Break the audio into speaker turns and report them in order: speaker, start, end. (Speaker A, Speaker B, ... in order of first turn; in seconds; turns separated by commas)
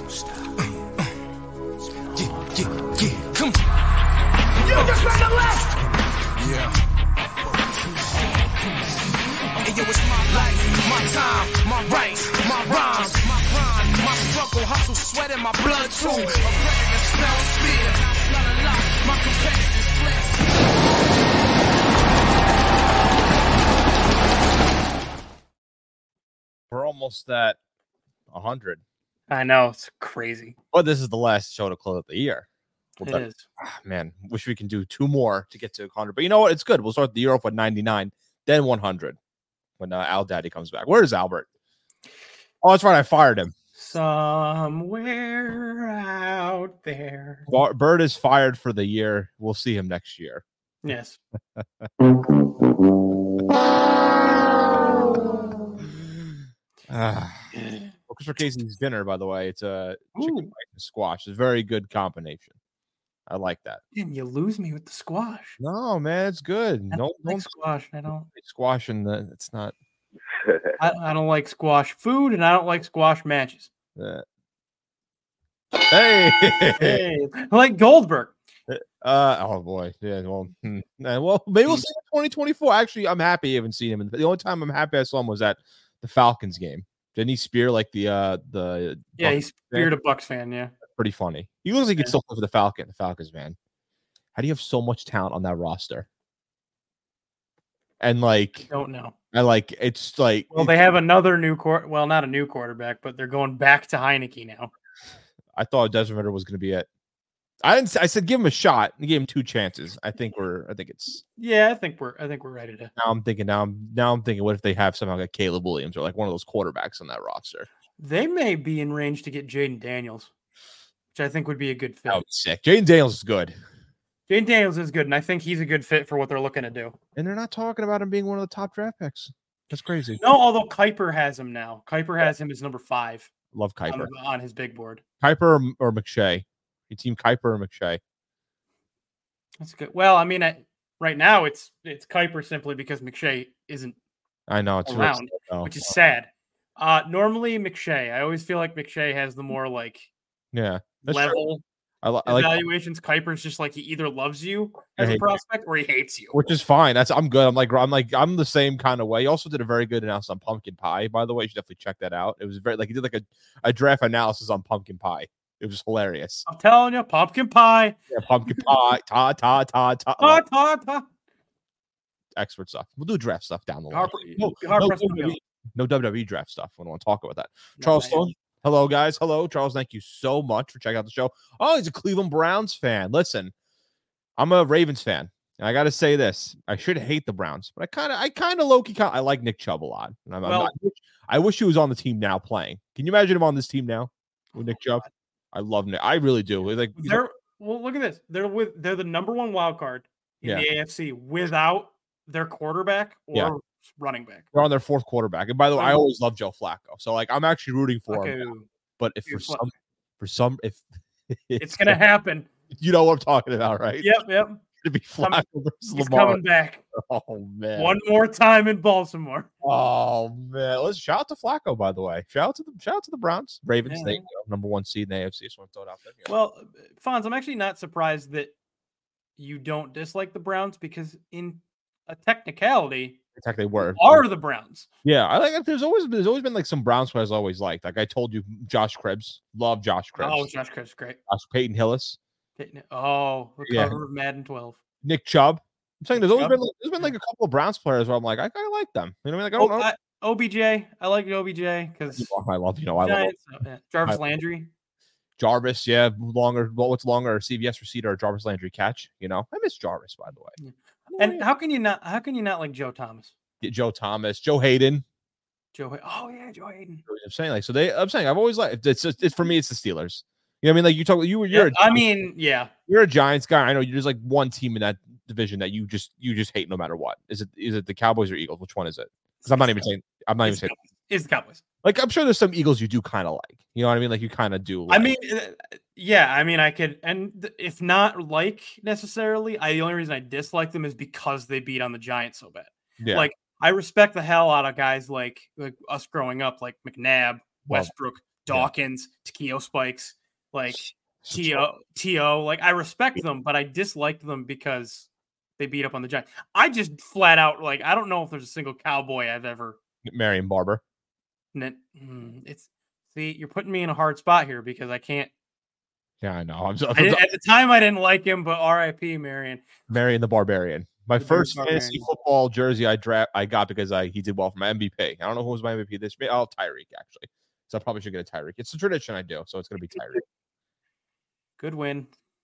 Speaker A: 2.1-3.6, Speaker A: 4.6-5.8, Speaker A: 6.3-6.8, Speaker A: 7.8-8.7, Speaker A: 9.6-20.7, Speaker B: 26.7-27.6, Speaker B: 28.3-28.8, Speaker C: 29.3-30.6, Speaker B: 30.7-32.5, Speaker C: 33.0-33.5, Speaker B: 33.0-39.2, Speaker B: 39.8-41.5, Speaker B: 42.6-43.5, Speaker C: 43.8-47.5, Speaker B: 47.5-50.4, Speaker C: 50.8-51.2, Speaker B: 51.5-51.9, Speaker B: 56.9-57.5, Speaker C: 57.6-57.8, Speaker B: 58.1-62.5, Speaker C: 60.1-60.5, Speaker B: 63.3-63.8, Speaker C: 63.9-65.6, Speaker B: 65.6-67.5, Speaker C: 66.9-68.3, Speaker B: 68.3-69.7, Speaker C: 70.8-73.7, Speaker B: 74.0-74.2, Speaker B: 75.9-77.0, Speaker C: 76.8-78.3, Speaker B: 78.7-89.9, Speaker C: 89.2-90.7, Speaker B: 90.9-93.5, Speaker B: 94.3-96.0, Speaker B: 98.0-98.7, Speaker C: 98.7-99.1, Speaker B: 99.3-100.7, Speaker C: 100.5-104.7, Speaker B: 105.5-106.9, Speaker B: 107.6-111.2, Speaker C: 111.4-112.9, Speaker B: 113.0-117.7, Speaker C: 118.0-120.3, Speaker C: 121.1-122.2, Speaker B: 122.1-123.5, Speaker C: 124.3-126.9, Speaker B: 127.2-130.2, Speaker C: 130.2-133.3, Speaker B: 133.5-134.1, Speaker C: 133.9-135.0, Speaker B: 135.2-138.0, Speaker C: 139.6-143.9, Speaker B: 144.5-145.9, Speaker C: 144.8-150.1, Speaker B: 150.5-151.4, Speaker C: 151.0-151.6, Speaker B: 152.0-152.6, Speaker C: 152.2-156.4, Speaker B: 155.0-155.3, Speaker B: 156.3-166.4, Speaker C: 166.5-168.7, Speaker B: 168.1-170.4, Speaker C: 170.2-171.1, Speaker B: 172.3-183.5, Speaker C: 173.9-175.4, Speaker C: 177.8-178.2, Speaker B: 184.4-197.2, Speaker C: 190.4-190.7, Speaker C: 194.6-195.1, Speaker C: 197.0-204.5, Speaker B: 204.5-212.0, Speaker C: 205.8-206.0, Speaker C: 208.1-208.7, Speaker C: 209.2-209.6, Speaker C: 211.6-212.5, Speaker B: 212.7-214.2, Speaker C: 214.0-214.6, Speaker B: 214.8-216.4, Speaker C: 215.9-216.8, Speaker B: 216.9-217.9, Speaker C: 217.7-219.5, Speaker B: 219.6-226.3, Speaker C: 223.8-224.2, Speaker C: 226.3-228.5, Speaker C: 229.4-233.2, Speaker B: 233.3-234.2, Speaker C: 233.8-234.9, Speaker B: 235.0-240.4, Speaker C: 240.2-241.2, Speaker B: 241.3-242.2, Speaker C: 242.6-244.8, Speaker B: 243.7-243.9, Speaker B: 245.0-249.9, Speaker C: 246.1-247.1, Speaker C: 249.6-252.3, Speaker B: 252.2-253.3, Speaker C: 253.0-254.7, Speaker B: 255.4-260.5, Speaker C: 260.6-263.3, Speaker B: 261.1-261.4, Speaker B: 263.6-265.0, Speaker C: 265.7-267.0, Speaker B: 267.1-272.0, Speaker C: 271.5-272.7, Speaker B: 272.9-280.7, Speaker C: 279.4-279.8, Speaker C: 280.4-281.6, Speaker B: 281.8-285.1, Speaker C: 284.9-309.8, Speaker B: 293.0-293.3, Speaker B: 301.2-301.6, Speaker B: 310.0-310.8, Speaker C: 311.5-315.3, Speaker B: 316.2-317.2, Speaker C: 316.9-319.6, Speaker B: 319.9-330.2, Speaker C: 321.2-322.0, Speaker C: 331.6-332.1